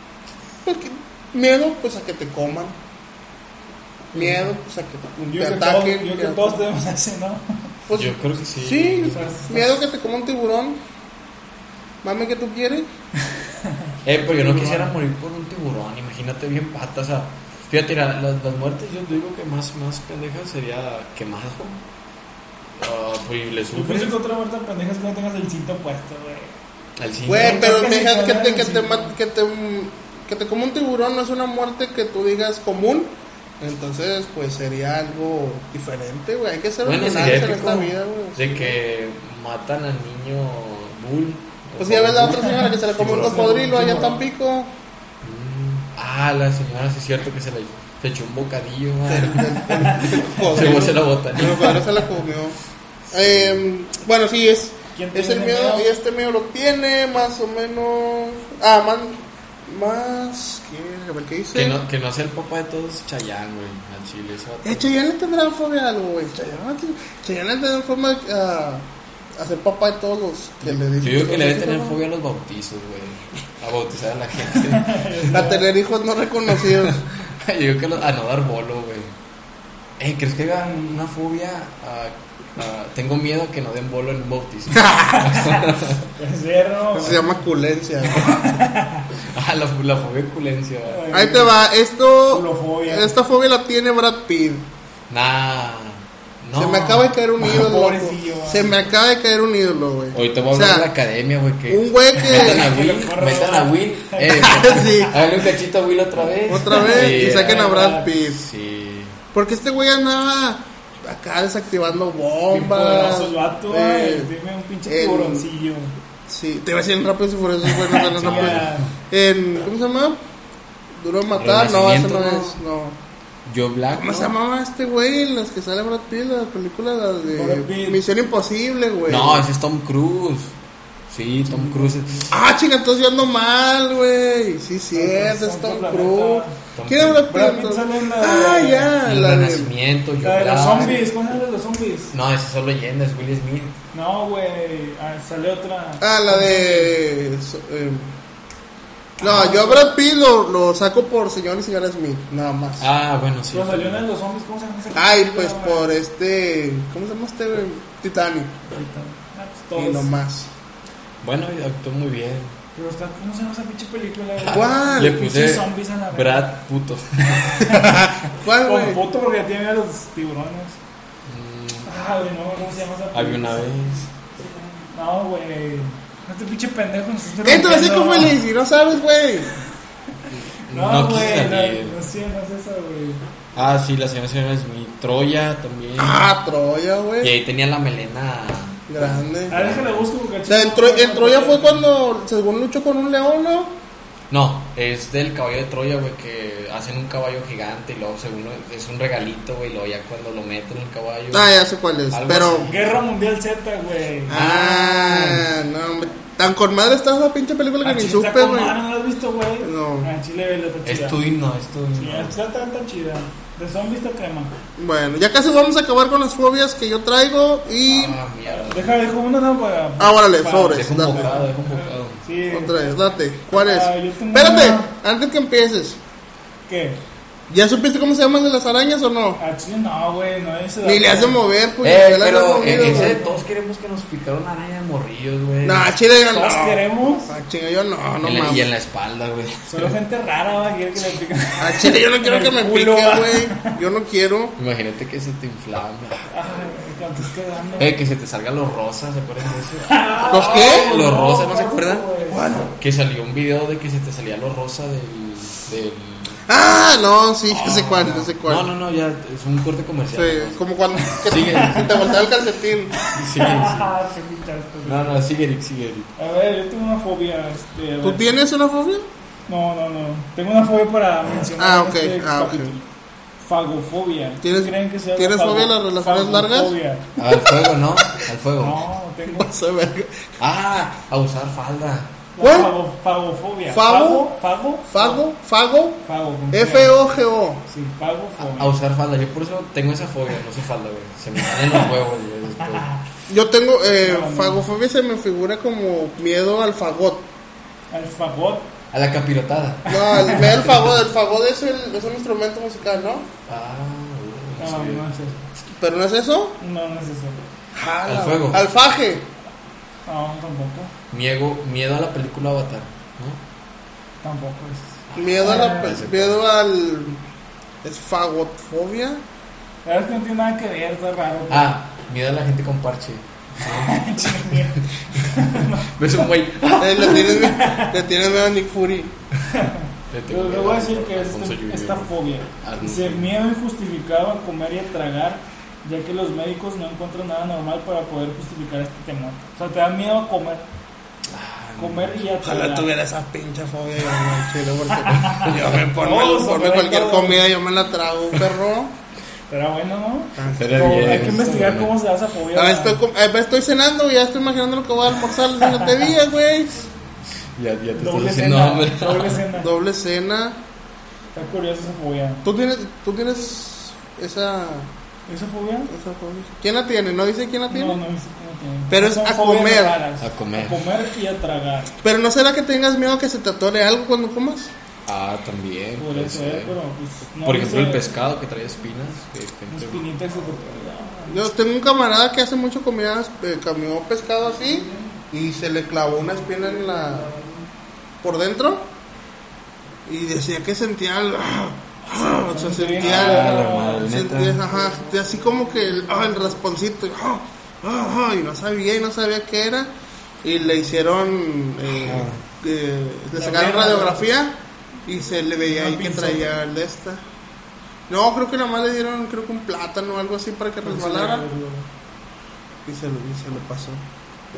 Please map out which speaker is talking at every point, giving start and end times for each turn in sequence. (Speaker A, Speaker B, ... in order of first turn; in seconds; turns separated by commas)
Speaker A: 0.6-2.8, Speaker A: 4.1-6.6, Speaker B: 4.1-4.4, Speaker B: 5.3-7.5, Speaker A: 7.9-10.8, Speaker C: 7.9-9.2, Speaker B: 9.1-9.8, Speaker A: 12.0-12.9, Speaker B: 13.6-14.9, Speaker C: 14.0-21.8, Speaker C: 22.8-24.1, Speaker B: 23.7-26.6, Speaker C: 27.0-27.7, Speaker A: 27.3-38.8, Speaker B: 27.4-29.1, Speaker C: 36.8-43.6, Speaker A: 41.8-44.7, Speaker B: 43.1-44.2, Speaker C: 45.2-51.9, Speaker A: 49.1-52.5, Speaker C: 53.1-53.6, Speaker A: 53.1-61.8, Speaker B: 54.9-55.9, Speaker C: 61.5-64.9, Speaker A: 64.6-68.8, Speaker A: 69.3-72.0, Speaker C: 70.6-75.4, Speaker B: 74.7-75.7, Speaker A: 75.3-77.0, Speaker C: 76.6-79.1, Speaker C: 80.0-86.0, Speaker A: 84.7-85.3, Speaker B: 86.1-87.2, Speaker A: 86.9-88.4, Speaker B: 88.1-89.1, Speaker C: 89.2-91.0, Speaker B: 90.8-91.5, Speaker A: 91.1-94.7, Speaker B: 92.3-93.1, Speaker C: 95.1-97.1, Speaker A: 96.5-100.9, Speaker B: 97.4-98.7, Speaker C: 100.1-109.2, Speaker A: 101.7-102.7, Speaker B: 102.2-105.0, Speaker A: 104.3-105.2, Speaker A: 106.5-108.4, Speaker B: 106.7-108.1, Speaker A: 109.3-114.3, Speaker B: 112.5-115.9, Speaker A: 114.8-115.5, Speaker A: 116.3-120.2, Speaker B: 117.7-118.9, Speaker C: 118.1-118.8, Speaker A: 121.0-123.0, Speaker C: 121.3-122.6, Speaker C: 123.5-124.3, Speaker A: 123.9-129.4, Speaker B: 127.3-128.0, Speaker C: 129.1-130.5, Speaker C: 131.1-132.3, Speaker B: 131.4-132.3, Speaker A: 132.3-139.7, Speaker B: 134.9-136.6, Speaker C: 136.7-137.2, Speaker B: 137.3-138.9, Speaker C: 139.0-141.0, Speaker B: 140.2-142.1, Speaker C: 142.1-143.8, Speaker B: 143.9-147.0, Speaker A: 146.0-148.1, Speaker A: 149.2-152.9, Speaker B: 149.2-149.9, Speaker C: 152.8-154.0, Speaker B: 153.5-155.9, Speaker A: 154.9-158.5, Speaker B: 158.7-160.1, Speaker A: 159.7-160.5, Speaker C: 161.2-162.5, Speaker B: 162.7-166.5, Speaker C: 164.4-167.8, Speaker A: 164.5-165.2, Speaker B: 167.6-168.0, Speaker A: 167.7-169.0, Speaker B: 168.6-170.8, Speaker C: 171.3-171.9, Speaker B: 171.8-173.7, Speaker C: 173.1-174.1, Speaker B: 174.9-178.4, Speaker A: 177.4-179.5, Speaker C: 180.3-182.0, Speaker B: 180.7-183.2, Speaker C: 183.5-186.3, Speaker A: 186.0-187.3, Speaker C: 187.2-190.1, Speaker A: 188.9-189.6, Speaker B: 189.5-191.8, Speaker A: 190.5-193.7, Speaker C: 194.3-201.5, Speaker A: 201.3-202.7, Speaker C: 202.1-203.0, Speaker B: 202.6-204.4, Speaker A: 204.3-208.8, Speaker C: 204.3-205.5, Speaker B: 207.8-211.2, Speaker A: 209.6-210.1, Speaker C: 210.8-212.3, Speaker B: 211.9-214.5, Speaker A: 214.8-218.2, Speaker C: 217.8-219.0, Speaker B: 218.5-222.8, Speaker A: 220.0-221.3, Speaker C: 220.7-222.2, Speaker A: 222.5-226.0, Speaker B: 223.5-224.9, Speaker B: 226.7-227.0, Speaker A: 227.5-229.4, Speaker B: 229.4-231.4, Speaker A: 230.8-233.2, Speaker C: 231.8-235.9, Speaker B: 232.7-233.4, Speaker A: 235.6-238.7, Speaker B: 236.3-237.3, Speaker C: 238.2-239.9, Speaker B: 239.7-243.7, Speaker A: 241.6-244.5, Speaker C: 244.6-246.3, Speaker B: 246.3-248.0, Speaker C: 247.8-252.1, Speaker B: 249.8-252.4, Speaker A: 250.3-250.9, Speaker A: 252.3-252.7, Speaker C: 252.8-256.6, Speaker A: 256.5-258.6, Speaker C: 257.5-260.6, Speaker A: 260.1-262.9, Speaker C: 261.2-262.1, Speaker B: 261.3-262.1, Speaker B: 263.0-265.2, Speaker C: 263.1-263.9, Speaker C: 264.8-266.1, Speaker B: 266.2-268.3, Speaker A: 268.0-269.1, Speaker B: 269.5-272.9, Speaker A: 271.6-272.7, Speaker B: 273.4-277.1, Speaker A: 274.4-276.7, Speaker C: 277.2-278.8, Speaker B: 278.6-279.5, Speaker A: 279.3-280.3, Speaker C: 280.4-282.1, Speaker B: 282.4-285.2, Speaker A: 282.4-282.7, Speaker A: 283.7-284.3, Speaker A: 284.9-287.6, Speaker B: 286.0-286.9, Speaker B: 287.7-288.7, Speaker C: 288.4-292.9, Speaker A: 293.3-297.3, Speaker B: 294.0-294.6, Speaker B: 297.9-298.7, Speaker C: 298.9-300.6, Speaker A: 299.9-303.3, Speaker B: 299.9-300.4, Speaker C: 303.5-305.1, Speaker B: 304.6-305.4, Speaker A: 305.8-306.6, Speaker B: 306.6-307.4, Speaker A: 307.7-309.3, Speaker C: 308.0-308.6, Speaker B: 310.1-310.9, Speaker C: 311.1-313.4, Speaker B: 314.2-315.9, Speaker C: 315.1-316.4, Speaker A: 315.1-317.2, Speaker A: 317.8-319.2, Speaker B: 319.8-321.7, Speaker C: 321.5-327.4, Speaker B: 323.6-325.9, Speaker A: 326.8-329.1, Speaker B: 327.0-327.9, Speaker B: 329.5-340.6, Speaker C: 330.1-333.3, Speaker C: 341.3-342.2, Speaker B: 341.8-342.9, Speaker A: 342.4-348.9, Speaker B: 344.9-347.4, Speaker C: 345.1-345.7, Speaker B: 349.5-353.0, Speaker A: 350.4-351.0, Speaker C: 350.6-352.0, Speaker A: 352.5-356.8, Speaker C: 357.6-359.4, Speaker B: 357.9-359.7, Speaker A: 359.5-360.6, Speaker B: 361.3-362.4, Speaker A: 362.4-364.9, Speaker B: 365.3-365.9, Speaker A: 365.9-368.0, Speaker B: 367.7-371.9, Speaker A: 368.9-370.0, Speaker C: 370.2-370.8, Speaker A: 372.0-374.7, Speaker C: 375.1-376.8, Speaker B: 376.0-378.1, Speaker C: 377.4-380.1, Speaker B: 379.7-381.4, Speaker A: 381.3-387.3, Speaker B: 387.3-387.5, Speaker A: 388.2-388.9, Speaker A: 390.1-399.9, Speaker B: 392.4-394.2, Speaker C: 393.0-394.6, Speaker A: 400.4-407.2, Speaker C: 402.0-402.4, Speaker B: 403.3-404.3, Speaker B: 405.7-406.5, Speaker A: 408.1-411.4, Speaker B: 410.8-411.9, Speaker A: 412.9-414.0